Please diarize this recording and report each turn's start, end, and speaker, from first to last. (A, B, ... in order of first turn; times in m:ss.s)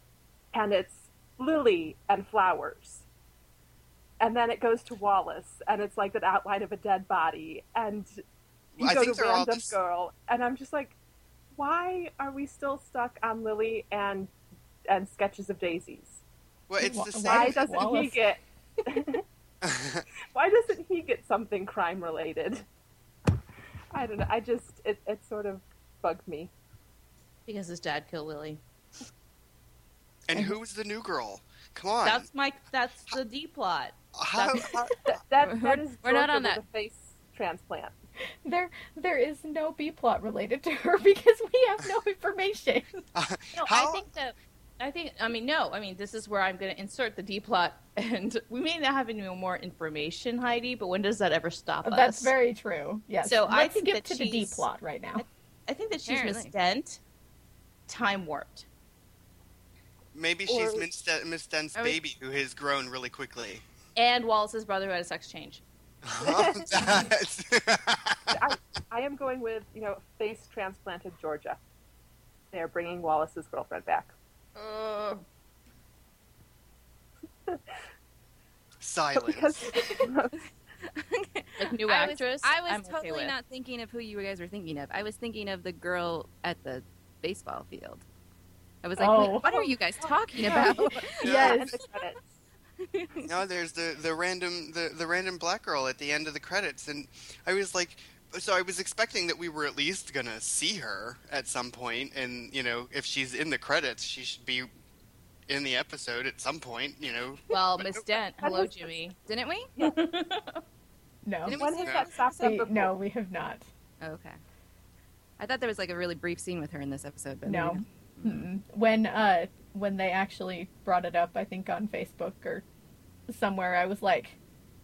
0:00.5-0:03.0 A
0:04.2-0:08.1 A
0:08.8-0:09.7 B
0:08.8-0:11.0 A
0:11.5-0:14.3 A
0:14.9-0:16.2 A
0:16.7-0:17.6 B
0:16.8-0:18.2 C
0:17.2-0:19.2 A
0:19.6-0:20.0 B
0:20.3-0:22.7 A
0:23.9-0:26.5 A
0:27.5-0:28.6 D
0:30.3-0:32.3 B
0:32.0-0:34.8 D
0:34.2-0:34.9 B
0:34.8-0:38.0 A
0:35.4-0:36.5 E
0:38.4-0:43.0 C
0:43.2-0:44.1 B
0:43.5-0:52.3 D
0:51.8-0:55.2 C
0:53.2-0:57.0 D
0:56.1-0:56.5 E
0:57.9-0:58.7 D
1:00.1-1:03.6 B
1:00.5-1:00.9 A
1:04.0-1:05.6 D
1:06.0-1:08.4 B
1:06.2-1:06.7 A
1:08.3-1:11.6 A
1:12.5-1:14.1 A
1:14.6-1:15.2 D
1:18.8-1:19.7 B
1:19.2-1:20.4 A
1:20.8-1:28.0 E
1:21.6-1:23.3 D
1:28.8-1:31.6 E
1:29.0-1:29.8 C
1:30.0-1:32.2 A
1:30.4-1:31.7 C
1:31.2-1:31.6 B
1:32.8-1:33.3 E
1:33.3-1:44.7 B
1:45.5-1:48.0 B
1:47.5-1:49.2 D
1:48.4-1:48.9 A
1:49.3-1:49.7 E
1:49.8-1:50.6 D
1:51.2-1:51.6 C
1:51.4-1:52.6 E
1:51.5-1:53.0 A
1:51.7-1:52.1 B
1:52.4-1:53.7 C
1:54.0-1:54.4 E
1:55.4-1:58.5 E
1:57.5-2:02.6 C
2:03.3-2:04.4 C